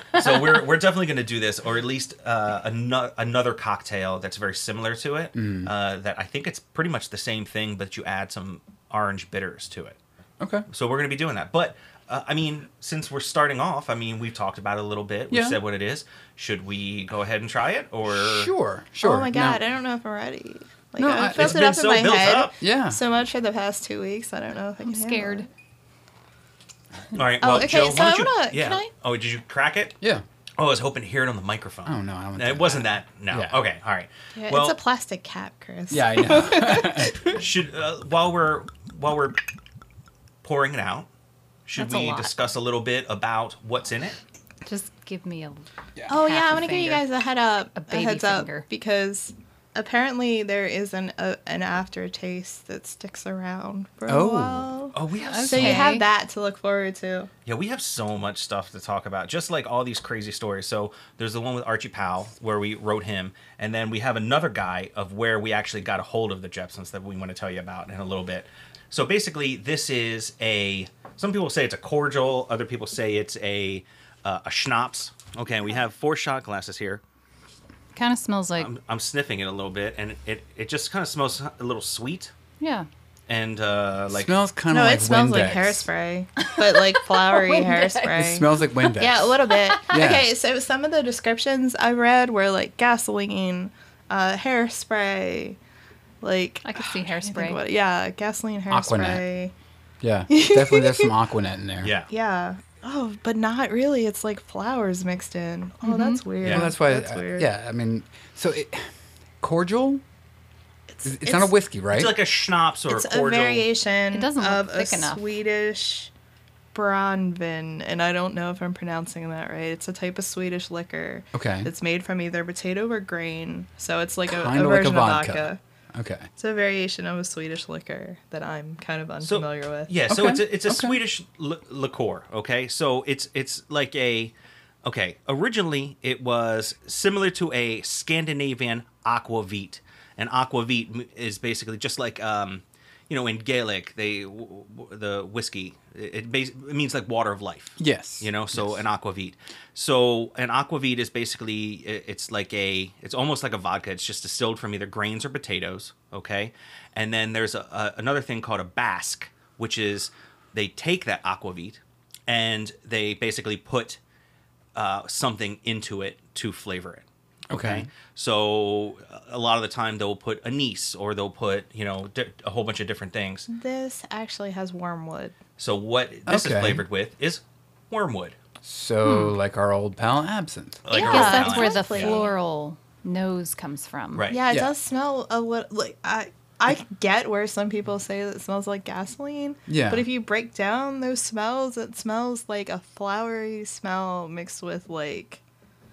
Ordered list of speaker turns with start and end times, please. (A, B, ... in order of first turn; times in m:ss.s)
0:00.1-0:10.0 A
0:00.2-0:00.6 B
0:05.4-0:05.7 C
0:10.4-0:10.6 C
0:10.7-0:18.5 A
0:15.3-0:15.6 C
0:18.1-0:19.6 C
0:19.0-0:25.5 D
0:21.0-0:21.6 C
0:21.4-0:22.6 A
0:22.6-0:23.0 C
0:24.8-0:25.5 B
0:27.1-0:30.0 A
0:27.4-0:28.9 D
0:30.6-0:34.8 A
0:31.9-0:33.6 C
0:34.4-0:37.4 D
0:35.9-0:37.2 C
0:37.3-0:39.4 A
0:40.4-0:41.1 A
0:41.7-0:44.2 A
0:41.8-0:42.3 B
0:44.6-0:47.1 B
0:46.1-0:57.3 D
0:47.8-0:48.6 B
0:54.1-0:54.7 C
0:54.9-0:55.9 A
0:55.2-0:56.0 B
0:57.4-1:17.0 A
1:17.9-1:18.7 B
1:18.6-1:22.3 A
1:22.6-1:22.9 B
1:23.3-1:24.4 A
1:24.1-1:25.9 C
1:24.7-1:35.6 D
1:26.6-1:28.4 B
1:28.1-1:29.4 C
1:29.9-1:30.3 C
1:36.2-1:39.5 D
1:36.6-1:37.6 B
1:38.7-1:39.2 C
1:40.0-1:41.9 C
1:40.3-1:41.1 D
1:41.8-1:42.1 A
1:42.1-1:47.5 D
1:45.8-1:46.2 B
1:46.4-1:46.7 A
1:46.4-1:48.9 C
1:49.4-1:50.0 C
1:50.9-1:51.5 D
1:51.0-1:52.2 C
1:51.9-1:53.6 A
1:52.9-1:56.1 D
1:54.1-1:55.2 B
1:56.7-2:05.6 D
2:01.3-2:01.7 C
2:04.2-2:06.3 C
2:06.4-2:09.9 D
2:09.2-2:14.3 A
2:10.1-2:11.0 C
2:14.8-2:44.0 A
2:27.8-2:28.8 C
2:44.8-2:53.5 A
2:47.5-2:47.9 C
2:53.5-2:55.4 D
2:55.6-2:58.4 A
2:56.3-2:56.8 C
2:58.6-3:00.9 C
2:59.0-2:59.4 B
3:00.8-3:02.2 A
3:00.9-3:02.3 D
3:00.9-3:04.2 B
3:04.1-3:04.4 A
3:04.3-3:15.4 D
3:09.7-3:10.1 C